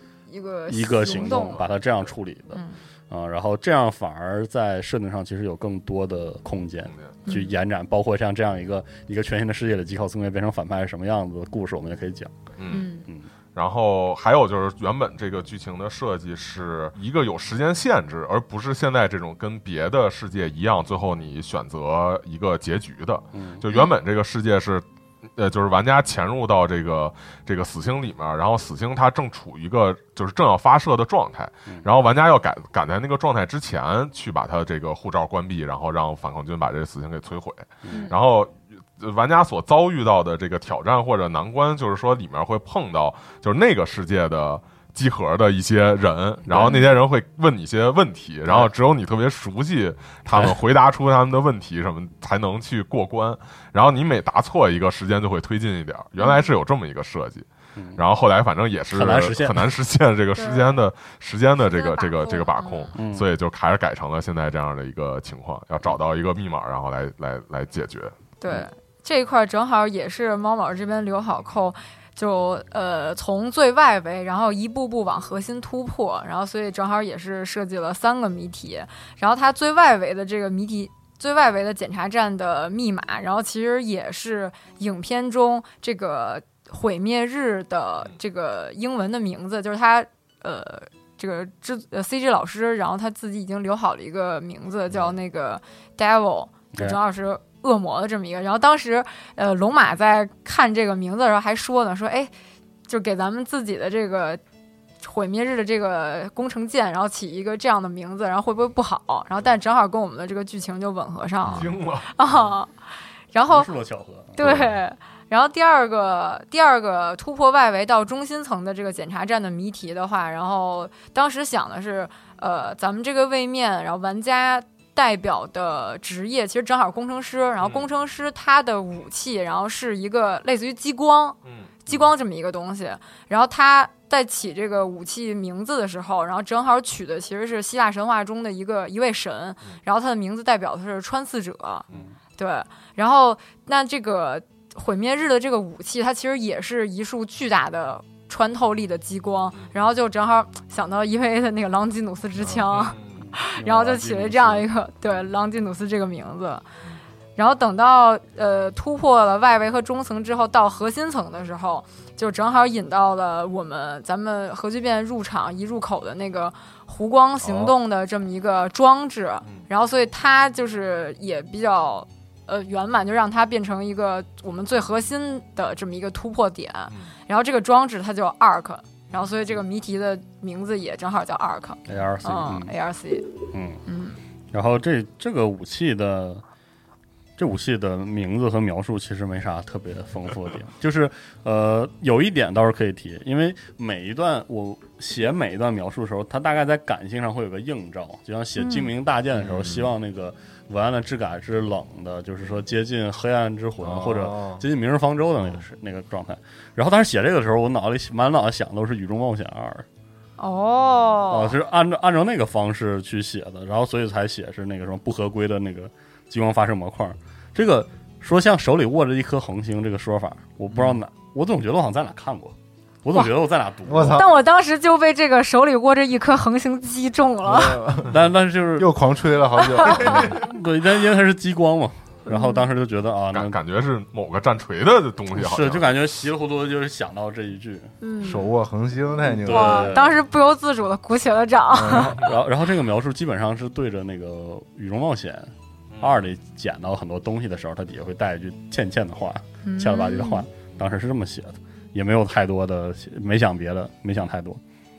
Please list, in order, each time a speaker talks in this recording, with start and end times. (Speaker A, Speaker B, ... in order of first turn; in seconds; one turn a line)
Speaker A: 0.3-1.6
Speaker B: 0.7-12.3
Speaker A: 2.5-2.8
Speaker C: 6.9-7.2
Speaker A: 7.3-7.5
Speaker C: 12.6-12.9
Speaker A: 12.7-13.1
Speaker C: 13.6-68.2
Speaker B: 23.3-23.6
Speaker A: 23.7-24.0
Speaker B: 37.8-38.1
Speaker B: 46.5-46.8
Speaker A: 46.6-46.9
Speaker B: 48.5-48.7
Speaker B: 50.3-50.6
Speaker A: 56.2-56.5
Speaker B: 57.8-58.0
Speaker B: 58.9-59.7
Speaker A: 60.4-60.8
Speaker A: 61.6-62.9
Speaker B: 63.0-63.3
Speaker A: 68.4-102.3
Speaker B: 96.7-97.0
Speaker A: 102.9-104.4
Speaker A: 105.0-112.7
Speaker C: 111.5-112.1
Speaker A: 113.3-113.7
Speaker B: 113.5-114.4
Speaker A: 114.4-141.8
Speaker C: 127.6-127.9
Speaker C: 131.4-131.7
Speaker A: 142.4-156.6
Speaker C: 152.5-153.2
Speaker B: 153.2-154.7
Speaker A: 157.4-183.3
Speaker B: 181.9-182.7
Speaker B: 183.5-183.8
Speaker A: 183.9-184.2
Speaker B: 184.5-186.4
Speaker B: 187.4-209.9
Speaker A: 198.6-198.9
Speaker D: 199.4-199.9
Speaker D: 203.8-204.6
Speaker A: 210.4-211.6
Speaker B: 211.3-224.3
Speaker D: 220.7-221.0
Speaker D: 223.9-224.3
Speaker A: 224.1-227.8
Speaker D: 227.4-230.4
Speaker B: 228.0-228.9
Speaker A: 229.6-230.3
Speaker B: 229.9-233.6
Speaker A: 232.3-232.7
Speaker C: 233.3-235.9
Speaker B: 235.3-237.9
Speaker A: 238.0-238.5
Speaker D: 238.2-240.0
Speaker B: 239.3-240.2
Speaker A: 239.5-242.2
Speaker D: 241.7-242.2
Speaker B: 241.8-254.6
Speaker C: 245.9-246.3
Speaker A: 249.7-250.5